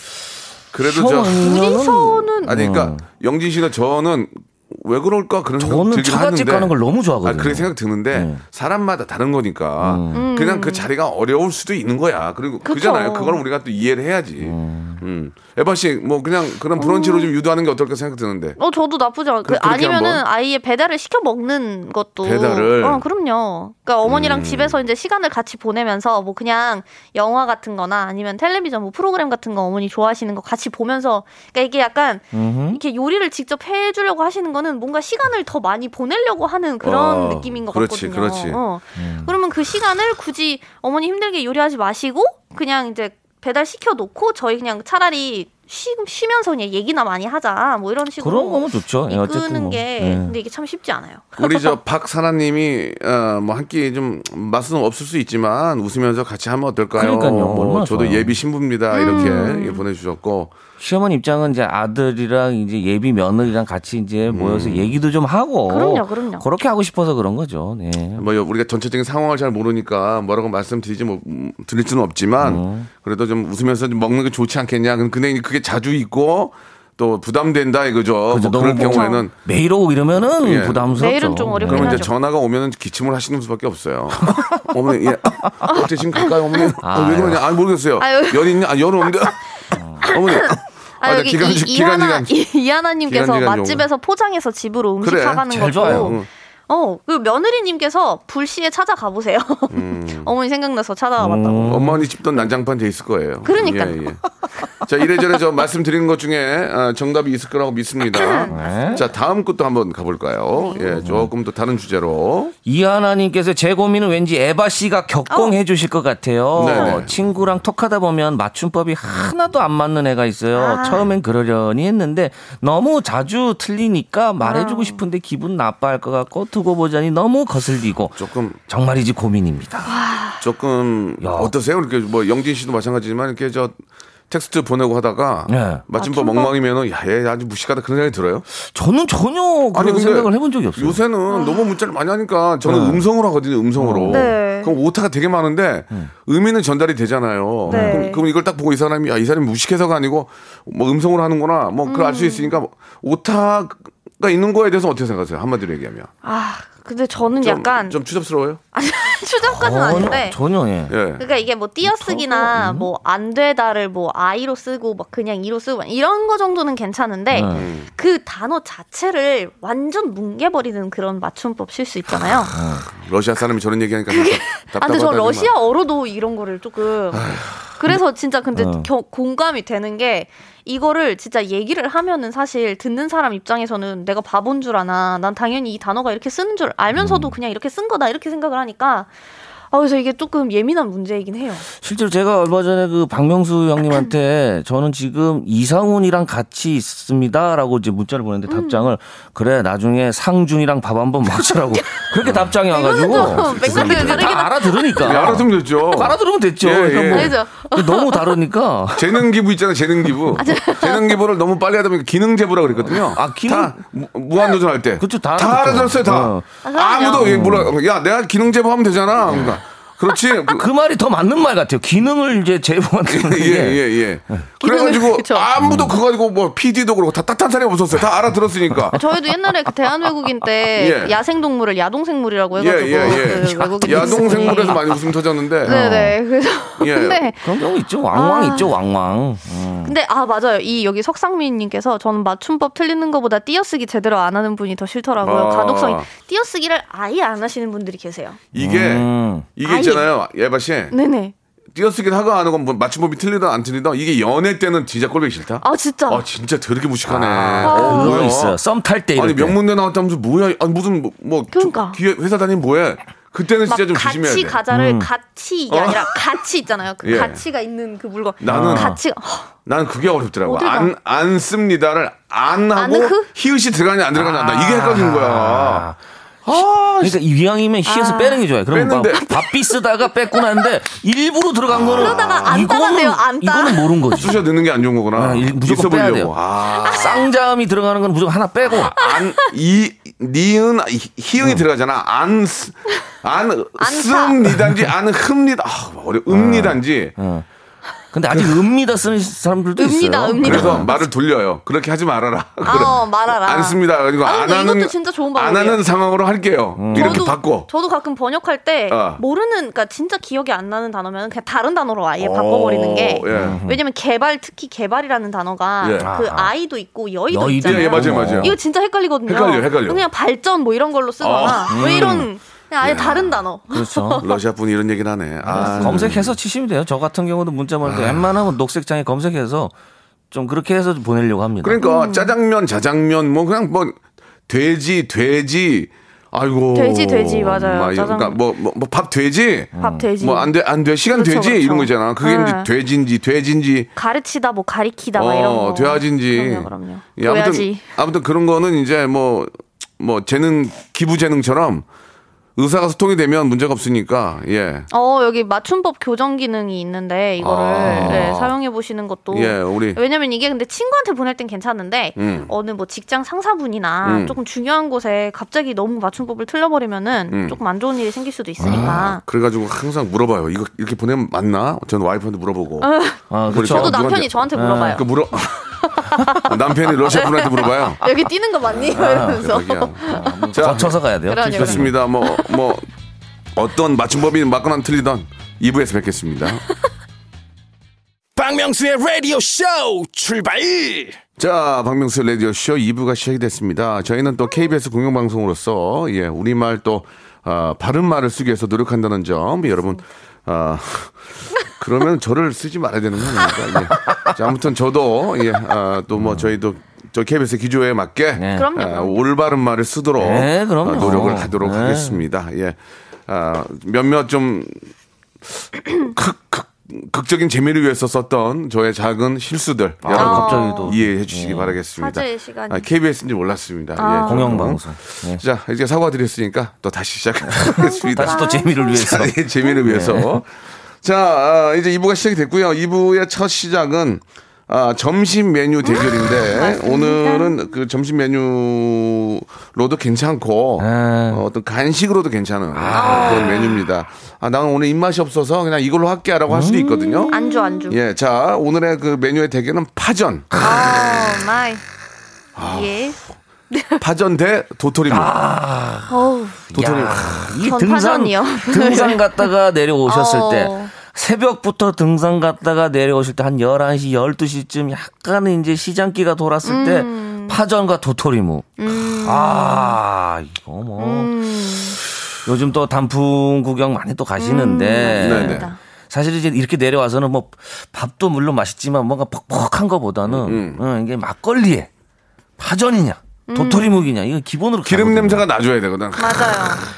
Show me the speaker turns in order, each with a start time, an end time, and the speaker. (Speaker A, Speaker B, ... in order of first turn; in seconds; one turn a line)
Speaker A: 0.7-1.5
Speaker B: 0.8-3.0
Speaker C: 1.4-2.5
Speaker A: 2.4-18.6
Speaker B: 5.6-8.4
Speaker B: 9.8-10.2
Speaker C: 10.1-10.9
Speaker C: 12.6-13.4
Speaker B: 14.4-15.0
Speaker C: 16.8-17.3
Speaker C: 18.6-51.8
Speaker A: 19.4-20.2
Speaker A: 22.2-23.0
Speaker A: 24.0-24.8
Speaker B: 32.3-32.8
Speaker A: 36.8-38.6
Speaker B: 39.0-39.3
Speaker B: 48.2-50.3
Speaker A: 51.4-60.5
Speaker B: 57.0-58.3
Speaker C: 58.9-59.8
Speaker B: 60.8-68.2
Speaker A: 64.3-64.9
Speaker C: 65.7-66.4
Speaker A: 68.2-79.3
Speaker B: 72.4-72.9
Speaker B: 78.3-82.0
Speaker C: 78.8-79.2
Speaker A: 80.2-81.0
Speaker C: 81.0-82.1
Speaker A: 81.6-89.4
Speaker B: 84.3-84.6
Speaker C: 85.7-86.7
Speaker B: 86.8-87.4
Speaker C: 88.0-89.3
Speaker B: 89.7-90.1
Speaker A: 90.0-92.3
Speaker C: 90.0-101.8
Speaker A: 93.1-93.9
Speaker A: 95.0-96.3
Speaker B: 95.5-96.2
Speaker A: 99.7-100.3
Speaker B: 101.2-102.0
Speaker A: 101.6-104.2
Speaker C: 103.4-104.2
Speaker A: 104.8-112.5
Speaker C: 108.1-109.0
Speaker B: 108.5-109.0
Speaker C: 110.5-110.8
Speaker B: 111.0-111.3
Speaker B: 112.6-129.9
Speaker A: 116.5-117.1
Speaker C: 116.7-117.0
Speaker C: 120.5-121.1
Speaker C: 124.4-125.0
Speaker A: 128.2-128.6
Speaker C: 129.9-130.4
Speaker A: 130.4-133.8
Speaker B: 131.2-131.5
Speaker A: 134.3-138.4
Speaker B: 135.5-135.8
Speaker C: 135.9-136.5
Speaker B: 138.5-141.0
Speaker A: 139.7-156.1
Speaker C: 141.3-141.7
Speaker B: 142.6-143.0
Speaker B: 143.8-144.3
Speaker C: 144.1-144.7
Speaker B: 147.7-148.0
Speaker C: 147.7-148.2
Speaker C: 151.8-152.6
Speaker C: 156.2-158.0
Speaker A: 157.4-158.6
Speaker C: 158.7-160.4
Speaker B: 159.5-160.9
Speaker A: 160.9-161.2
Speaker C: 161.2-172.5
Speaker B: 161.8-162.9
Speaker B: 167.3-167.7
Speaker A: 167.5-167.9
Speaker B: 172.5-172.9
Speaker A: 172.9-175.5
Speaker C: 174.1-177.2
Speaker A: 177.1-177.5
Speaker C: 177.8-189.1
Speaker B: 178.6-178.9
Speaker B: 186.9-187.3
Speaker C: 189.7-191.7
Speaker B: 191.8-209.2
Speaker C: 198.5-198.9
Speaker C: 201.7-202.0
Speaker A: 202.2-202.5
Speaker C: 202.7-205.3
Speaker A: 203.1-204.4
Speaker A: 205.0-207.3
Speaker C: 207.1-208.4
Speaker A: 208.9-220.7
Speaker C: 210.4-211.2
Speaker B: 212.8-213.8
Speaker B: 215.0-216.5
Speaker C: 216.6-217.3
Speaker B: 217.2-217.7
Speaker B: 219.3-219.6
Speaker B: 220.5-224.4
Speaker A: 223.1-229.0
Speaker C: 224.6-225.5
Speaker B: 225.6-225.9
Speaker C: 228.9-234.8
Speaker A: 230.8-231.2
Speaker A: 232.6-235.8
Speaker B: 232.9-234.8
Speaker C: 235.6-237.5
Speaker B: 235.6-236.1
Speaker A: 236.8-237.2
Speaker B: 237.4-239.9
Speaker C: 238.1-238.8
Speaker C: 239.8-248.4
Speaker A: 245.2-246.1
Speaker A: 248.5-250.9
Speaker B: 248.6-249.5
Speaker C: 249.6-250.1
Speaker C: 250.9-251.3
Speaker A: 251.7-258.6
Speaker C: 255.6-256.2
Speaker B: 257.1-259.6
Speaker C: 257.6-258.2
Speaker A: 259.1-264.6
Speaker C: 261.5-262.0
Speaker C: 263.6-269.5
Speaker B: 264.7-265.1
Speaker A: 265.7-266.1
Speaker A: 267.0-267.4
Speaker A: 268.4-268.9
Speaker B: 268.5-269.0
Speaker A: 269.6-275.9
Speaker C: 270.4-270.9
Speaker C: 272.7-273.3
Speaker B: 274.1-276.0
Speaker A: 276.4-277.2
Speaker B: 277.0-284.4
Speaker C: 277.9-278.4
Speaker A: 278.7-279.3
Speaker A: 281.7-282.6
Speaker C: 282.0-284.1
Speaker A: 284.2-287.2
Speaker B: 285.1-286.3
Speaker C: 286.8-287.2
Speaker B: 286.9-288.9
Speaker A: 288.7-297.1
Speaker C: 289.0-289.5
Speaker C: 293.8-294.4
Speaker B: 296.3-297.4
Speaker B: 298.1-300.9
Speaker A: 298.3-298.6
Speaker C: 299.8-301.0
Speaker A: 300.4-307.7
Speaker C: 302.6-305.8
Speaker B: 306.8-307.3
Speaker C: 306.9-324.4
Speaker A: 308.9-309.2
Speaker A: 312.2-313.6
Speaker B: 313.3-313.8
Speaker A: 315.8-316.1
Speaker B: 316.0-316.5
Speaker B: 317.3-318.5
Speaker A: 317.6-318.6
Speaker A: 319.2-320.0
Speaker A: 321.2-322.3
Speaker B: 321.7-322.3
Speaker A: 322.8-323.4
Speaker B: 323.7-324.2
Speaker A: 324.2-326.3
Speaker B: 325.4-329.7
Speaker C: 325.5-326.0
Speaker A: 327.8-328.3
Speaker B: 330.3-331.8
Speaker A: 331.6-334.0
Speaker C: 331.8-332.3
Speaker A: 334.5-343.9
Speaker C: 336.7-338.4
Speaker B: 339.7-340.1
Speaker C: 339.8-340.5
Speaker C: 341.1-342.7
Speaker C: 343.9-347.8
Speaker A: 345.1-351.9
Speaker A: 352.6-354.9
Speaker C: 354.9-369.2
Speaker A: 357.4-358.5
Speaker B: 357.9-358.3
Speaker A: 359.3-360.0
Speaker A: 362.2-362.5
Speaker A: 364.0-364.4
Speaker A: 367.3-367.6
Speaker B: 368.6-369.1
Speaker A: 368.6-372.9
Speaker C: 372.8-376.5
Speaker B: 373.3-375.0
Speaker A: 373.5-375.5
Speaker A: 376.4-378.0
Speaker C: 377.1-380.5
Speaker A: 378.9-382.9
Speaker B: 378.9-379.4
Speaker B: 380.0-381.9
Speaker C: 381.3-382.7
Speaker A: 383.5-386.6
Speaker D: 388.4-391.2
Speaker A: 391.4-414.9
Speaker B: 404.0-404.3
Speaker B: 406.1-406.5
Speaker B: 408.4-408.7
Speaker C: 408.5-409.2
Speaker B: 410.2-412.2
Speaker A: 415.9-447.3
Speaker B: 420.0-421.8
Speaker C: 420.1-420.9
Speaker C: 422.0-422.9
Speaker C: 424.0-424.5
Speaker B: 424.2-425.4
Speaker B: 427.5-430.4
Speaker C: 427.7-429.0
Speaker C: 435.8-437.6
Speaker B: 440.8-441.4
Speaker B: 442.7-443.5
Speaker C: 442.9-443.8
Speaker B: 446.5-447.8
Speaker C: 447.3-448.0
Speaker A: 447.9-450.6
Speaker B: 450.6-450.9
Speaker C: 450.6-451.8
Speaker A: 452.6-453.0
Speaker C: 452.6-453.2
Speaker C: 453.7-454.0
Speaker A: 454.0-455.4
Speaker B: 455.1-456.1
Speaker C: 456.1-456.6
Speaker B: 456.7-471.3
Speaker A: 456.7-457.5
Speaker C: 457.6-459.5
Speaker C: 460.1-460.9
Speaker C: 466.6-467.6
Speaker C: 468.8-470.0
Speaker C: 471.0-472.0
Speaker B: 472.4-481.9
Speaker C: 474.4-475.8
Speaker A: 475.1-475.7
Speaker A: 480.2-480.8
Speaker B: 482.6-485.4
Speaker C: 483.5-484.1
Speaker A: 484.8-486.9
Speaker C: 486.2-486.8